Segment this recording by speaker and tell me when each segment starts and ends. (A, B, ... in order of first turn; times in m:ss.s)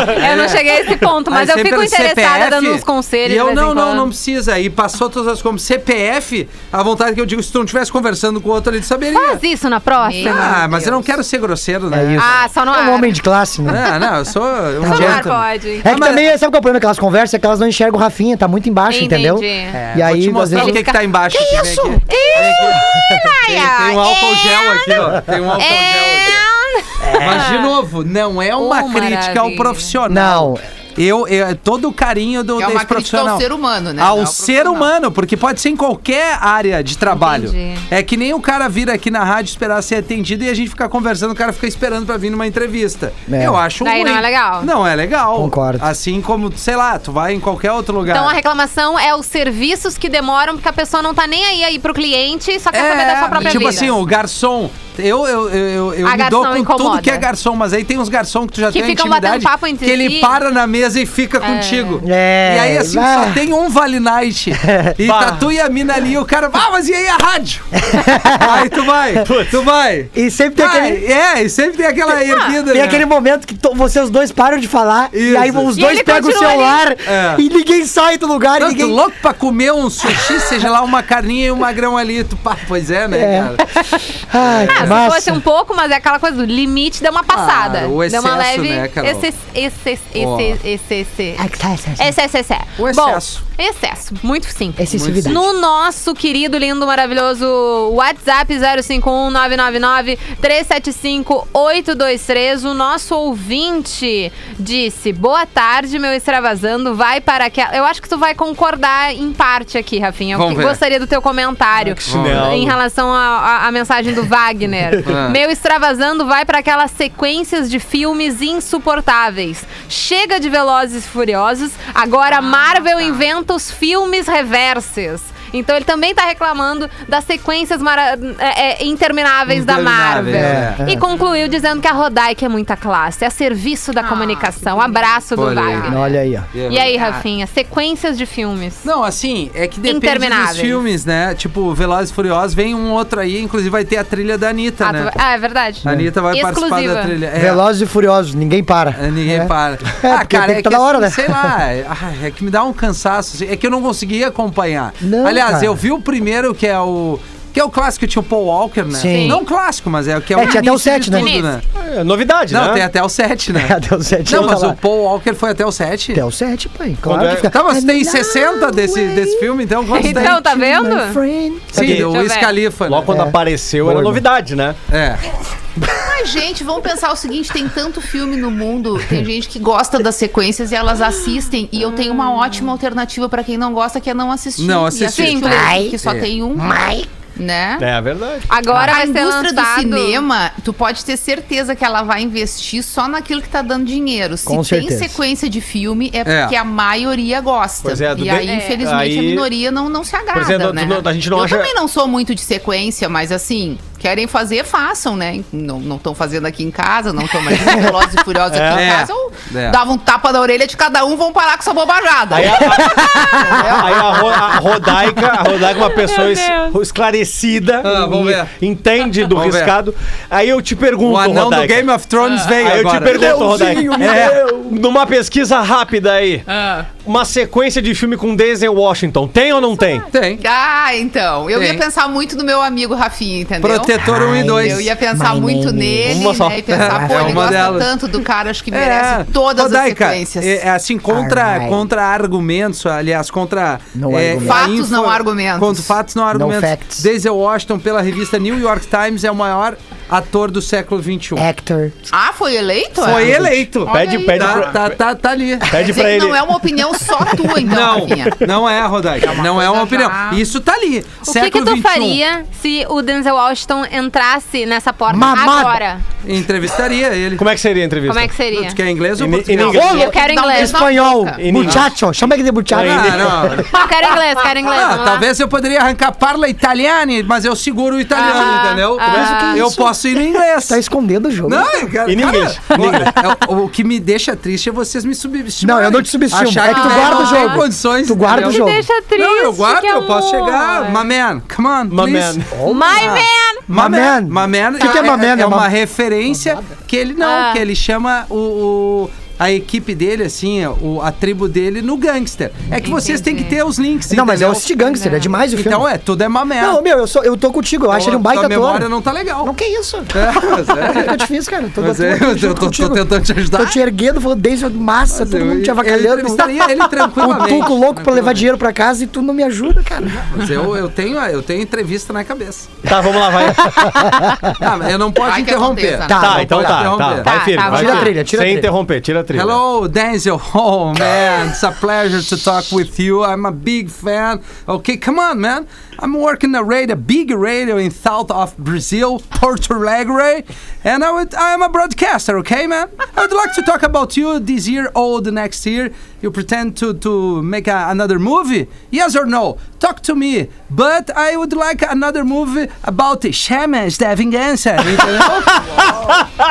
0:00.2-0:04.1 A
0:00.2-0:09.4 B
0:09.1-0:10.6 A
0:10.0-0:11.1 C
0:10.2-0:12.4 B
0:11.9-0:13.9 D
0:12.2-0:13.1 A
0:13.7-0:16.3 B
0:14.8-0:15.3 D
0:14.8-0:15.8 A
0:15.8-0:20.8 D
0:18.9-0:19.8 A
0:19.8-0:26.4 B
0:20.5-0:27.7 A
0:27.1-0:33.5 B
0:28.6-0:29.9 A
0:30.1-0:30.6 D
0:32.6-0:34.9 C
0:34.0-0:48.4 B
0:37.1-0:37.8 A
0:43.3-0:43.6 D
0:43.8-0:44.7 A
0:45.4-0:45.9 D
0:48.1-0:53.9 A
0:52.7-1:13.0 B
0:53.3-0:53.9 C
0:56.0-0:57.3 A
0:58.7-1:00.3 A
1:01.4-1:02.0 A
1:02.0-1:03.4 D
1:04.6-1:05.0 D
1:05.0-1:05.4 E
1:07.9-1:08.6 D
1:09.2-1:09.5 E
1:10.2-1:11.0 D
1:12.3-1:12.5 A
1:12.7-1:19.0 D
1:15.1-1:15.7 B
1:15.8-1:16.8 A
1:17.1-1:17.4 B
1:18.6-1:23.6 B
1:23.1-1:25.4 D
1:24.4-1:25.0 B
1:24.7-1:31.4 A
1:27.3-1:29.2 B
1:30.2-1:30.6 B
1:31.4-1:32.2 D
1:32.0-2:16.0 A
1:32.8-1:33.4 B
1:34.8-1:35.4 D
1:34.9-1:35.5 B
1:50.3-1:50.8 B
1:52.0-1:52.8 E
1:52.1-1:52.5 B
1:55.0-1:55.4 B
2:02.3-2:03.3 C
2:09.5-2:10.8 B
2:10.3-2:11.0 D
2:14.0-2:16.1 C
2:15.4-2:15.9 B
2:15.9-2:16.5 D
2:16.5-2:16.9 B
2:16.7-2:18.9 A
2:16.8-2:17.2 C
2:18.8-2:25.1 B
2:19.8-2:20.8 A
2:24.8-2:27.1 A
2:25.8-2:27.6 B
2:27.4-2:31.5 D
2:29.0-2:41.6 B
2:35.0-2:35.8 D
2:38.9-2:39.4 D
2:39.1-2:39.4 A
2:40.4-2:41.3 D
2:41.1-2:41.5 A
2:41.8-2:42.8 E
2:42.5-2:43.8 B
2:43.5-2:44.8 D
2:44.3-2:46.2 B
2:46.1-2:49.0 D
2:47.0-2:47.5 E
2:47.5-2:50.4 B
2:49.9-2:51.2 A
2:49.9-2:52.1 D
2:51.7-2:53.1 B
2:51.8-2:52.1 E
2:52.1-2:52.5 A
2:52.9-2:54.8 E
2:53.1-2:54.2 D
2:54.9-2:55.2 B
2:55.9-3:06.8 C
3:04.6-3:06.3 B
3:05.1-3:05.7 A
3:05.5-3:06.0 D
3:06.6-3:07.1 D
3:07.4-3:07.9 C
3:07.8-3:08.5 E
3:08.5-3:10.2 A
3:08.8-3:34.2 C
3:14.5-3:15.2 D
3:16.2-3:16.6 B
3:17.8-3:19.5 E
3:18.4-3:18.8 A
3:20.3-3:21.7 E
3:27.6-3:27.9 D
3:28.5-3:28.9 E
3:28.7-3:29.8 B
3:32.3-3:41.9 E
3:32.7-3:33.7 D
3:35.7-3:36.8 A
3:37.8-3:38.5 B
3:39.3-3:39.7 B
3:41.0-3:44.4 B
3:42.6-3:46.5 E
3:43.1-3:44.7 D
3:47.0-3:50.1 E
3:50.1-3:50.4 B
3:50.4-3:53.9 C
3:51.5-3:51.8 B
3:53.6-3:54.9 B
3:54.0-3:57.8 D
3:54.6-4:00.6 C
3:56.0-3:57.6 E
3:56.7-3:57.9 B
3:58.7-4:11.5 B
4:01.1-4:01.8 D
4:04.0-4:04.7 D
4:04.4-4:05.9 C
4:06.3-4:07.1 D
4:11.4-4:12.0 D
4:12.1-4:14.6 C
4:13.0-4:15.7 B
4:13.2-4:13.5 D
4:13.8-4:15.0 E
4:14.0-4:14.3 A
4:15.6-4:16.5 E
4:15.8-4:18.5 C
4:17.6-4:22.2 B
4:19.2-4:20.4 C
4:21.2-4:26.0 A
4:25.1-4:25.8 D
4:26.2-4:27.4 B
4:27.4-4:28.3 E
4:28.1-4:28.8 A
4:28.5-4:29.8 B
4:29.2-4:30.1 E
4:29.6-4:31.8 C
4:29.6-4:33.6 D
4:29.8-4:30.8 A
4:31.4-4:32.0 E
4:32.7-4:33.7 E
4:32.8-4:33.7 B
4:33.7-4:35.2 A
4:34.6-4:40.8 B
4:38.1-4:39.7 A
4:39.1-4:39.4 E
4:39.1-4:40.0 D
4:40.6-4:41.9 D
4:41.4-4:52.4 B
4:42.0-4:43.2 E
4:45.6-4:48.8 D
4:46.6-4:47.7 A
4:48.2-4:51.1 A
4:51.9-4:52.6 E
4:52.5-4:55.7 D
4:52.7-4:53.6 A
4:53.0-5:04.7 B
4:56.3-4:56.6 D
4:57.2-4:57.6 A
5:02.8-5:03.6 A
5:04.1-5:05.9 D
5:04.9-5:05.3 A
5:05.5-5:06.8 B
5:06.6-5:08.9 D
5:07.9-5:09.5 B
5:09.4-5:16.6 D
5:10.1-5:11.2 B
5:11.8-5:13.8 B
5:15.1-5:18.5 B
5:17.1-5:20.3 D
5:20.3-5:22.8 B
5:22.9-5:24.2 E
5:24.1-5:24.3 D
5:24.6-5:27.3 B
5:25.2-5:26.4 C
5:26.1-5:26.9 D
5:26.2-5:29.6 E
5:27.2-5:28.1 A
5:27.6-5:28.7 D
5:29.3-5:55.8 B